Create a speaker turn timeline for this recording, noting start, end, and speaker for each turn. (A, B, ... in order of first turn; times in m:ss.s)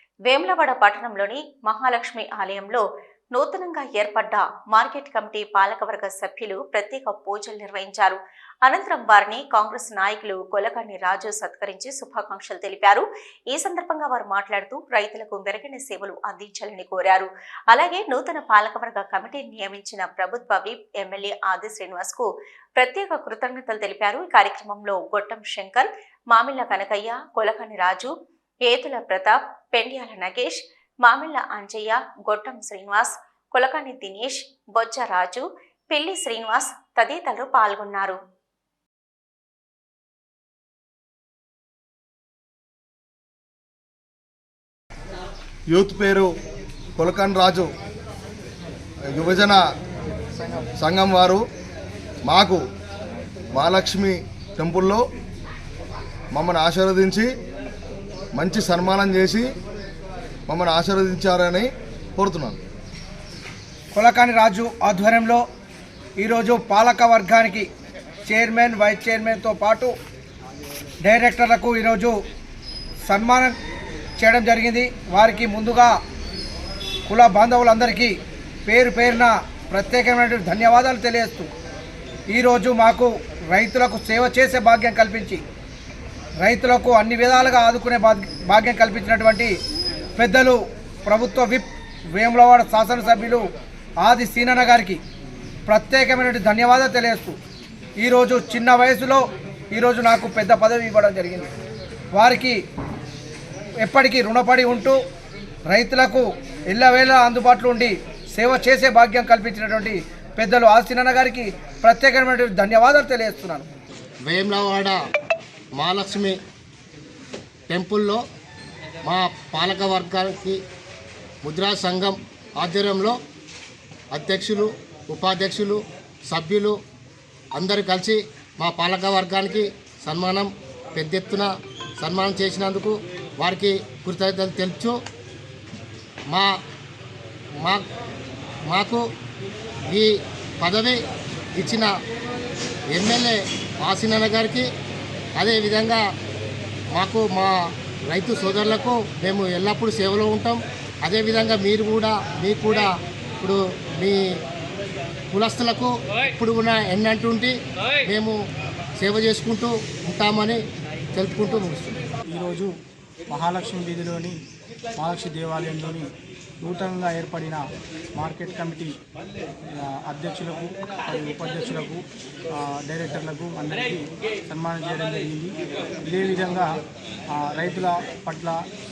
0:00.3-0:28.1 A
0:28.7-0:38.2 A
0:45.7-0:46.3 B
0:47.0-0:47.7 B
0:49.1-0:49.6 B
0:50.1-0:50.7 C
0:50.8-0:51.4 B
0:52.2-0:52.6 B
0:53.6-0:55.0 B
0:56.3-0:57.3 B
0:58.4-0:59.5 B
1:00.5-1:02.6 B
1:04.0-1:05.4 D
1:06.2-1:07.7 D
1:08.3-1:09.9 D
1:11.0-1:12.2 D
1:13.1-1:13.6 D
1:14.2-1:16.0 D
1:17.1-1:18.1 D
1:18.7-1:21.5 D
1:22.3-1:25.4 D
1:26.4-1:29.5 D
1:30.2-1:33.4 D
1:34.0-1:35.0 D
1:35.7-1:37.4 D
1:38.0-1:41.5 D
1:42.1-1:42.6 D
1:43.8-1:45.0 D
1:45.7-1:53.7 D
1:54.2-1:55.0 E
1:55.8-1:56.4 E
1:57.7-1:58.2 E
1:59.0-2:00.6 E
2:01.4-2:03.2 E
2:04.1-2:06.8 E
2:07.6-2:15.0 E
2:18.7-2:19.0 E
2:19.9-2:21.0 E
2:21.6-2:21.9 E
2:22.9-2:24.7 E
2:25.4-2:26.0 E
2:26.9-2:27.5 E
2:28.0-2:32.9 E
2:33.4-2:34.4 E
2:35.3-2:38.4 E
2:39.0-2:40.6 E
2:41.2-2:42.0 E
2:42.3-2:42.7 C
2:43.3-2:44.4 C
2:45.0-2:47.6 C
2:48.2-2:49.0 C
2:49.7-2:58.6 C